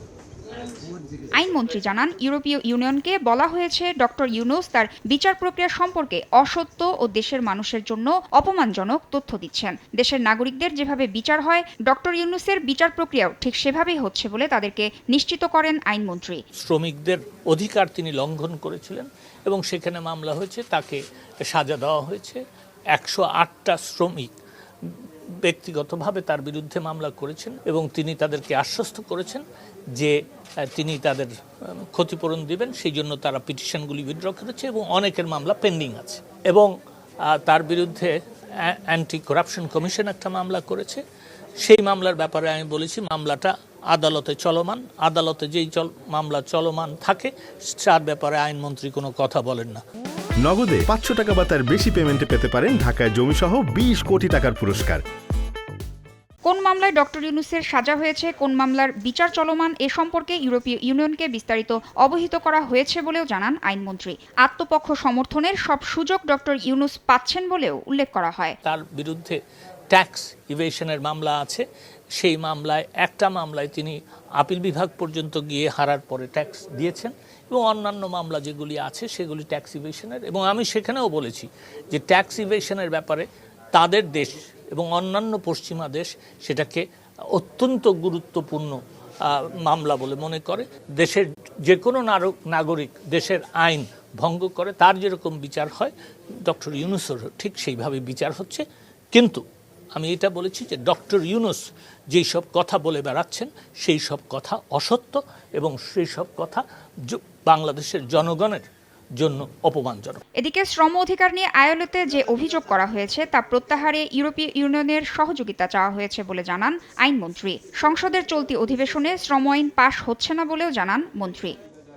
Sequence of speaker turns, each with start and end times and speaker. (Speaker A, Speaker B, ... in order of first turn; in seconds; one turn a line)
Speaker A: 1.3-16.4
Speaker B: 16.5-22.4
Speaker B: 22.9-24.3
Speaker B: 24.8-29.4
Speaker B: 30.7-31.3
Speaker B: 31.9-36.7
Speaker B: 37.3-41.0
Speaker B: 41.6-49.8
Speaker C: 50.4-55.0
Speaker A: 56.5-68.6
Speaker B: 68.6-69.4
Speaker B: 69.9-71.6
Speaker B: 72.2-95.9
Speaker B: 96.4-99.4
Speaker B: 100.0-108.7
Speaker B: 109.2-110.2
Speaker A: 110.4-121.6